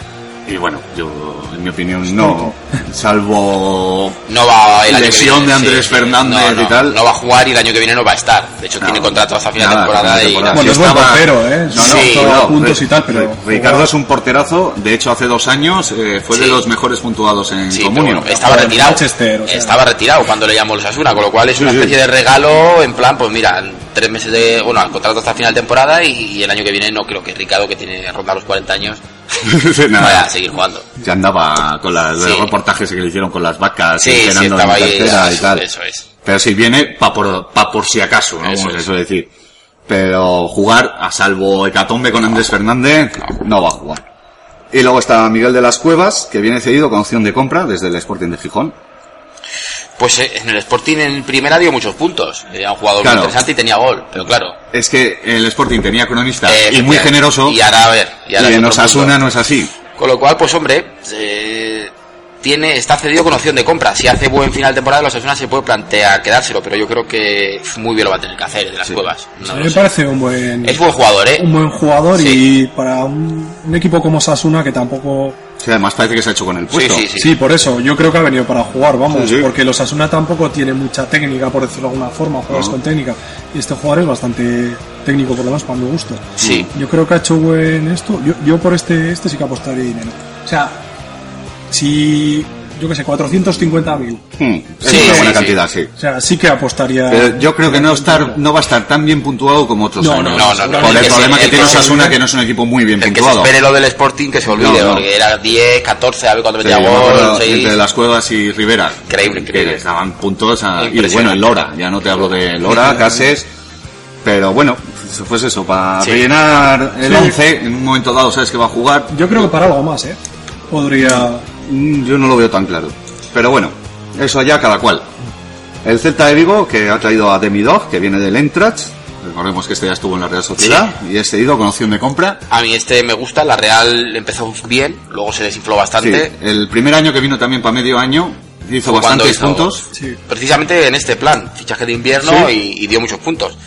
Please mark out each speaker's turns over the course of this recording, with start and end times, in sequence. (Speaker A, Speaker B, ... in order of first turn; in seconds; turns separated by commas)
Speaker A: 0.5-4.2, Speaker B: 2.1-2.6, Speaker C: 4.3-10.8, Speaker A: 4.8-7.0, Speaker A: 8.8-18.6, Speaker B: 10.5-13.9, Speaker C: 11.8-12.3, Speaker C: 16.3-16.6, Speaker C: 17.7-29.4, Speaker B: 18.4-19.8, Speaker A: 21.5-22.0, Speaker A: 29.4-30.3, Speaker C: 30.0-30.9, Speaker A: 31.0-35.7, Speaker C: 32.2-32.5, Speaker C: 34.0-36.0, Speaker A: 36.2-39.3, Speaker C: 38.4-38.9, Speaker A: 39.9-44.0, Speaker A: 44.7-48.8, Speaker C: 50.0-54.6, Speaker A: 53.0-53.4, Speaker A: 54.7-57.6, Speaker C: 56.5-59.1, Speaker A: 58.4-59.7, Speaker C: 60.0-61.9, Speaker C: 62.4-69.8, Speaker B: 69.4-70.8, Speaker C: 70.6-71.5, Speaker B: 71.3-75.4, Speaker C: 72.1-72.4, Speaker A: 75.6-77.1, Speaker C: 76.7-77.3, Speaker B: 77.2-90.8, Speaker A: 79.1-79.5, Speaker A: 82.5-82.8, Speaker C: 86.4-86.7, Speaker A: 86.4-86.7, Speaker B: 91.7-94.2, Speaker A: 94.4-95.9, Speaker B: 94.8-95.4, Speaker C: 94.8-95.6, Speaker B: 96.0-98.4, Speaker A: 97.1-103.5, Speaker B: 100.0-102.2, Speaker C: 100.3-102.0, Speaker C: 103.0-107.8, Speaker A: 104.5-105.1, Speaker A: 106.6-113.5, Speaker C: 109.1-109.8, Speaker C: 110.8-111.5, Speaker B: 112.7-113.2, Speaker A: 114.2-119.5, Speaker B: 117.0-117.4, Speaker B: 119.1-120.2, Speaker B: 120.7-121.5, Speaker A: 121.0-125.1, Speaker A: 125.8-132.4, Speaker C: 130.6-130.9, Speaker C: 132.5-136.3, Speaker A: 136.0-139.8, Speaker C: 138.8-143.6, Speaker A: 142.2-142.5